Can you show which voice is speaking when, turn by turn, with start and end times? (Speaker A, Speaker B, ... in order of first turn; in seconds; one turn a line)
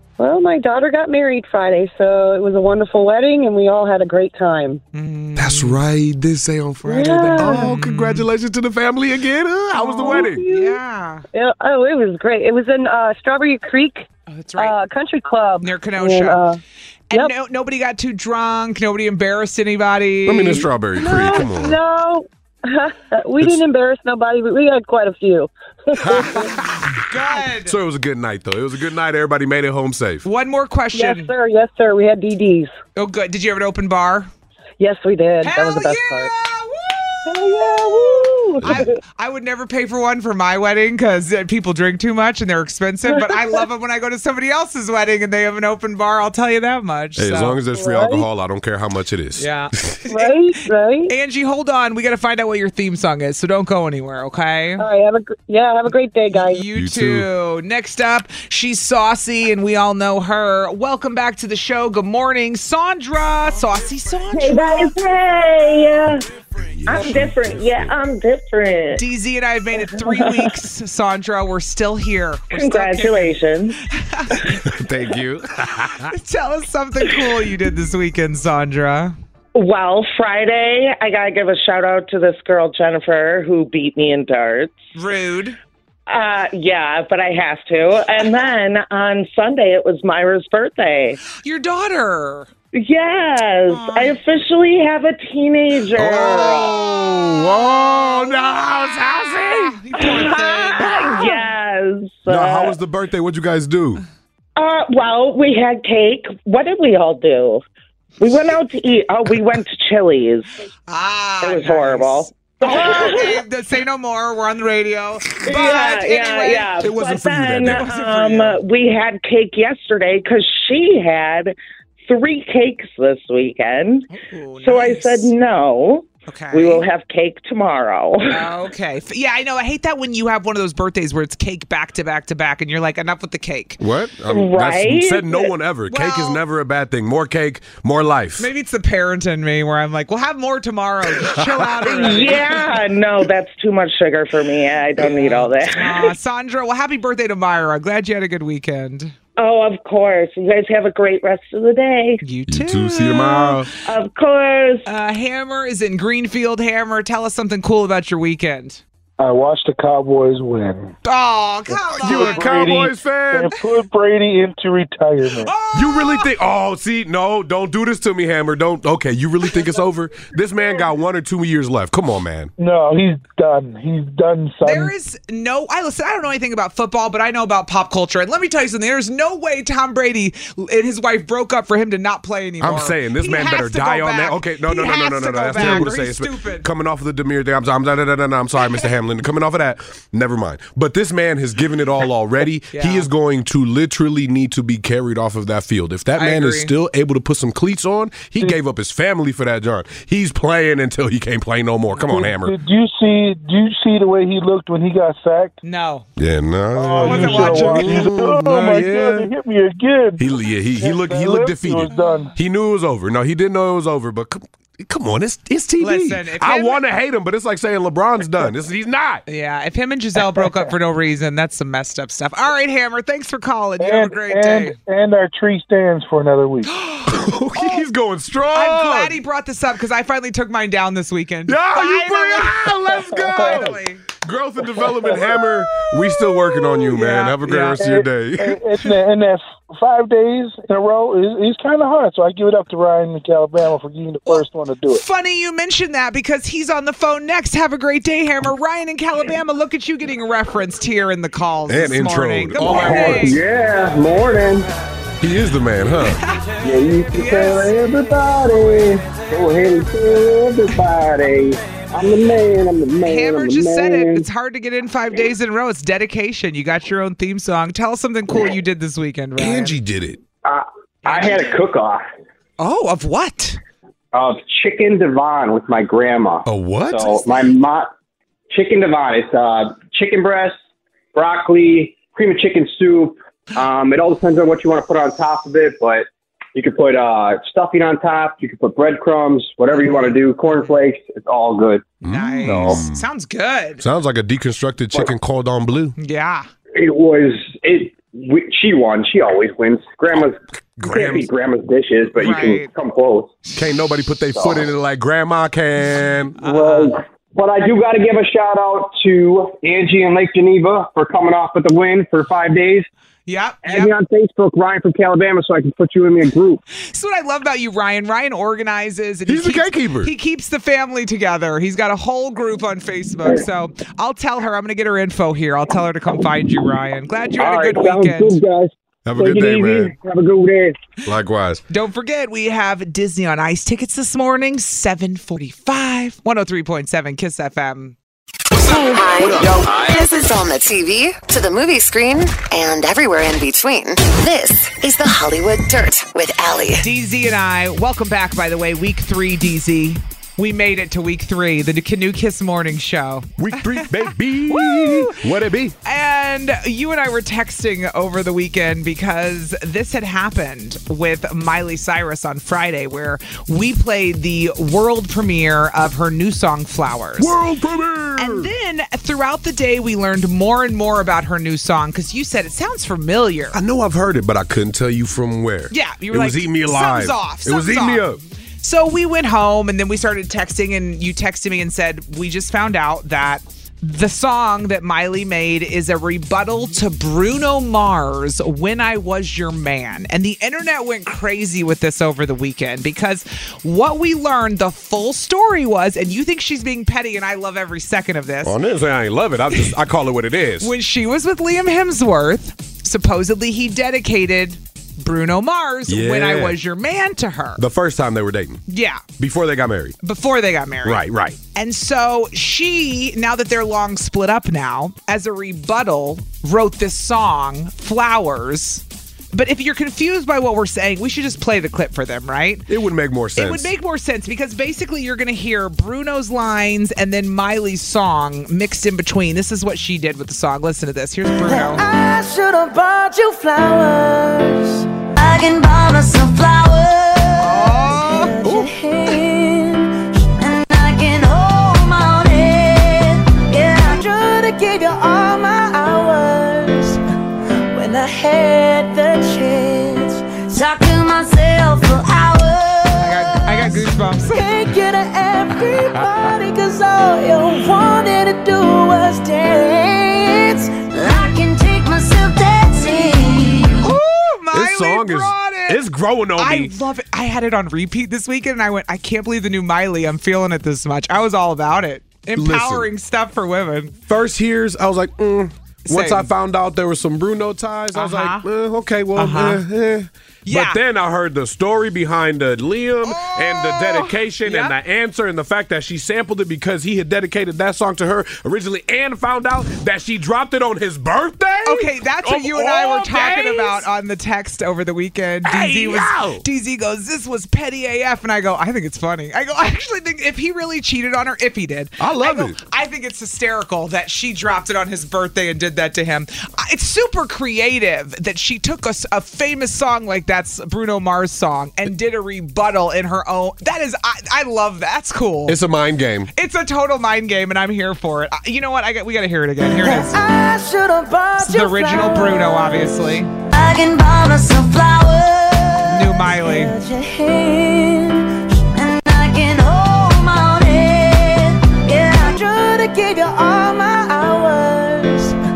Speaker A: 0.2-4.8
Speaker B: 4.9-5.8
Speaker C: 5.4-10.4
Speaker A: 6.8-7.8
Speaker B: 7.3-8.3
Speaker B: 9.7-11.2
Speaker A: 10.0-10.8
Speaker A: 11.3-16.6
Speaker B: 14.3-14.8
Speaker B: 15.6-16.4
Speaker B: 17.1-21.4
Speaker C: 20.2-21.8
Speaker A: 20.9-26.6
Speaker C: 26.0-30.3
Speaker B: 27.1-27.8
Speaker B: 30.2-31.3
Speaker A: 30.9-32.8
Speaker B: 33.0-34.3
Speaker A: 34.8-36.3
Speaker B: 35.4-47.6
Speaker A: 37.3-39.0
Speaker A: 43.1-43.4
Speaker C: 47.2-50.0
Speaker A: 47.7-48.2
Speaker B: 49.4-50.4
Speaker A: 50.1-51.1
Speaker B: 51.1-54.9
Speaker A: 54.8-56.6
Speaker B: 56.4-64.7
Speaker C: 56.7-57.3
Speaker D: 64.3-66.2
Speaker C: 66.6-68.0
Speaker D: 66.9-69.0
Speaker B: 68.9-73.4
Speaker D: 72.5-73.8
Speaker B: 73.9-74.5
Speaker C: 74.4-76.1
Speaker B: 76.0-79.2
Speaker D: 79.5-84.8
Speaker B: 85.0-85.6
Speaker D: 86.1-91.2
Speaker B: 91.3-92.5
Speaker D: 92.8-96.8
Speaker B: 93.7-94.2
Speaker C: 95.9-99.8
Speaker B: 96.1-101.4
Speaker D: 100.0-102.8
Speaker C: 102.3-104.0
Speaker D: 104.6-107.6
Speaker D: 108.2-110.5
Speaker B: 110.9-116.9
Speaker D: 111.4-113.4
Speaker D: 115.4-121.5
Speaker C: 116.8-117.9
Speaker B: 117.7-118.6
Speaker D: 122.1-124.1
Speaker B: 124.1-125.3
Speaker D: 124.6-128.5
Speaker B: 126.3-126.8
Speaker B: 128.3-133.8
Speaker C: 133.8-138.5
Speaker D: 134.3-135.5
Speaker B: 135.9-136.4
Speaker B: 138.4-142.6
Speaker C: 141.1-142.0
Speaker D: 141.9-146.1
Speaker B: 145.0-149.2
Speaker D: 149.4-152.2
Speaker B: 152.2-153.6
Speaker C: 152.5-153.7
Speaker D: 153.8-154.8
Speaker B: 154.8-158.8
Speaker E: 159.2-161.0
Speaker B: 161.0-162.7
Speaker E: 161.7-165.5
Speaker C: 162.0-163.6
Speaker B: 165.4-166.3
Speaker C: 165.7-172.5
Speaker E: 172.6-174.9
Speaker B: 174.6-186.7
Speaker C: 182.6-202.6
Speaker B: 192.7-193.1
Speaker B: 196.2-196.7
Speaker E: 202.0-205.6
Speaker B: 205.6-206.1
Speaker C: 206.2-209.3
Speaker E: 206.7-210.3
Speaker B: 207.0-208.1
Speaker C: 210.2-219.2
Speaker E: 210.8-212.3
Speaker B: 215.8-216.8
Speaker B: 219.3-224.8
Speaker E: 223.8-226.7
Speaker B: 226.6-227.9
Speaker C: 227.1-229.2
Speaker B: 228.5-234.0
Speaker C: 231.5-238.6
Speaker E: 233.2-233.7
Speaker E: 235.1-235.3
Speaker B: 235.8-237.9
Speaker E: 237.8-245.0
Speaker B: 244.3-253.4
Speaker C: 251.7-253.3
Speaker F: 252.6-254.7
Speaker C: 255.2-256.2
Speaker B: 256.1-256.5
Speaker F: 256.6-264.3
Speaker B: 257.1-257.7
Speaker B: 263.0-269.8
Speaker C: 269.4-270.2
Speaker F: 270.4-272.0
Speaker B: 271.1-271.6
Speaker B: 272.6-273.6
Speaker F: 274.1-277.9
Speaker C: 276.5-277.2
Speaker F: 278.5-280.6
Speaker F: 281.1-292.8
Speaker B: 289.8-290.7
Speaker C: 292.0-293.1
Speaker B: 292.1-293.8
Speaker C: 293.8-295.9
Speaker B: 296.0-296.5
Speaker F: 296.7-303.4
Speaker C: 300.8-301.3
Speaker B: 302.2-302.7
Speaker C: 303.6-306.4
Speaker F: 304.4-304.6
Speaker B: 306.4-307.0
Speaker F: 306.4-312.9
Speaker B: 313.3-313.9
Speaker F: 313.6-316.6
Speaker B: 316.8-328.4
Speaker C: 319.3-320.1
Speaker F: 327.4-330.8
Speaker C: 329.1-329.9
Speaker C: 331.1-331.6
Speaker B: 331.7-338.0
Speaker B: 338.6-339.6
Speaker G: 338.6-346.9
Speaker B: 346.8-355.2
Speaker C: 353.4-355.8
Speaker B: 355.9-367.3
Speaker C: 367.2-368.5
Speaker B: 368.2-373.6
Speaker C: 373.5-378.2
Speaker B: 375.7-378.1
Speaker B: 378.6-398.6
Speaker C: 398.4-400.7
Speaker B: 400.6-407.6
Speaker C: 405.9-406.6
Speaker C: 407.6-408.6
Speaker B: 408.7-409.0
Speaker C: 409.2-410.0
Speaker B: 410.0-411.0
Speaker C: 410.8-411.4
Speaker B: 411.6-422.7
Speaker C: 422.7-423.7
Speaker B: 423.4-431.8
Speaker H: 431.4-447.0
Speaker B: 437.4-438.4
Speaker C: 438.4-438.7
Speaker H: 447.7-463.8
Speaker B: 453.0-454.5
Speaker B: 463.8-465.8
Speaker C: 464.5-466.8
Speaker B: 466.4-474.0
Speaker C: 472.4-472.9
Speaker C: 474.1-493.9
Speaker B: 475.9-476.3
Speaker B: 477.9-478.5
Speaker B: 479.1-479.6
Speaker B: 480.4-480.8
Speaker B: 483.0-484.8
Speaker B: 491.6-515.6
Speaker C: 495.4-496.4
Speaker C: 502.0-502.6
Speaker C: 515.5-516.3
Speaker B: 516.3-520.2
Speaker H: 519.7-522.9
Speaker B: 521.4-523.3
Speaker H: 523.5-535.4
Speaker B: 525.8-526.8